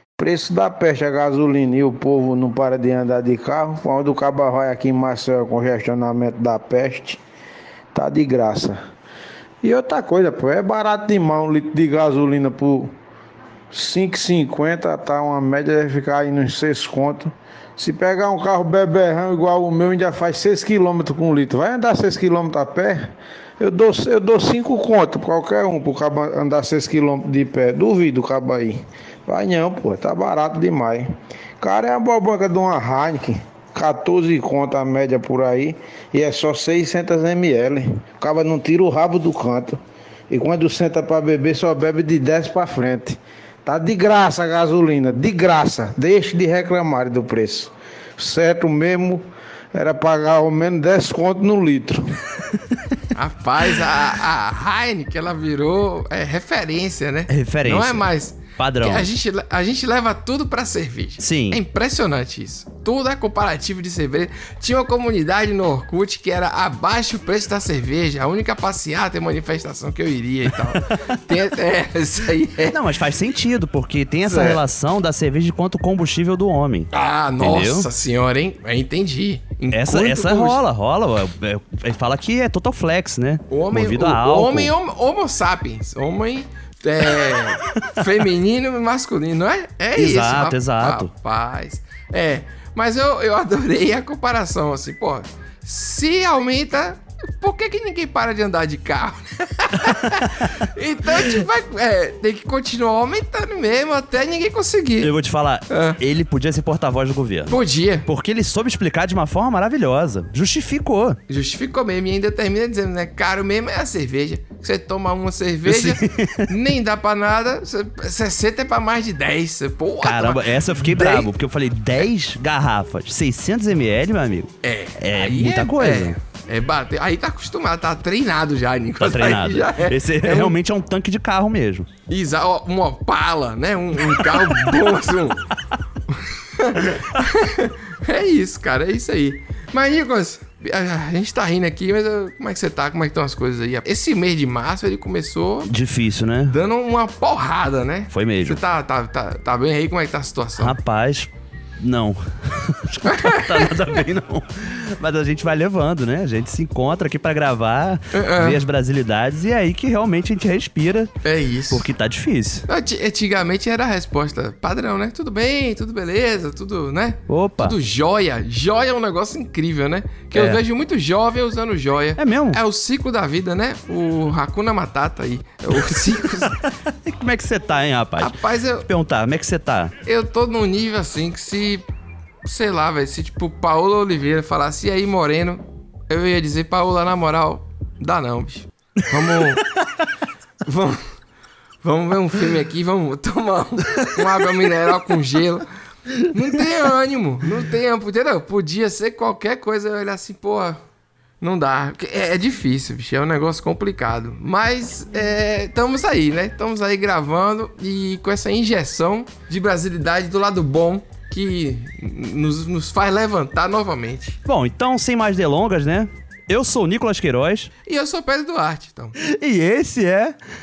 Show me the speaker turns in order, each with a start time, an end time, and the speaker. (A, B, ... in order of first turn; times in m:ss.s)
0:00.2-0:07.2 A
0:07.9-0:08.8 A
0:09.6-0:12.9 A
0:13.7-0:31.1 A
0:31.6-0:49.2 A
0:49.7-0:52.1 A
0:53.1-1:12.8 B
0:57.3-0:59.1 C
1:01.2-1:01.6 C
1:12.7-1:16.9 C
1:14.2-1:14.6 B
1:16.9-1:20.6 B
1:17.4-1:17.9 C
1:19.7-1:24.7 C
1:23.5-1:45.1 B
1:30.0-1:31.1 C
1:45.0-1:51.2 C
1:45.7-1:46.0 B
1:47.5-1:48.1 B
1:51.3-2:01.3 B
1:55.7-1:56.4 C
2:00.0-2:06.2 C
2:04.6-2:10.6 B
2:09.0-2:11.9 C
2:12.1-2:15.4 B
2:14.1-2:14.7 C
2:16.1-2:25.7 B
2:25.7-2:26.6 C
2:26.5-2:30.8 B
2:28.1-2:28.6 C
2:30.6-2:41.1 C
2:33.1-2:33.7 B
2:38.1-2:38.6 B
2:41.2-2:41.9 B
2:41.7-2:42.6 C
2:42.7-2:56.6 B
2:47.3-2:47.7 C
2:50.3-2:50.6 C
2:52.2-2:52.6 C
2:57.0-2:58.3 C
2:58.2-2:58.9 B
2:58.9-2:59.9 C
3:00.0-3:01.8 B
3:02.4-3:09.6 B
3:10.6-3:11.0 B
3:11.8-3:15.6 B
3:16.3-3:20.8 B
3:21.4-3:34.4 B
3:34.4-3:37.7 C
3:37.8-3:39.1 B
3:39.2-3:40.4 C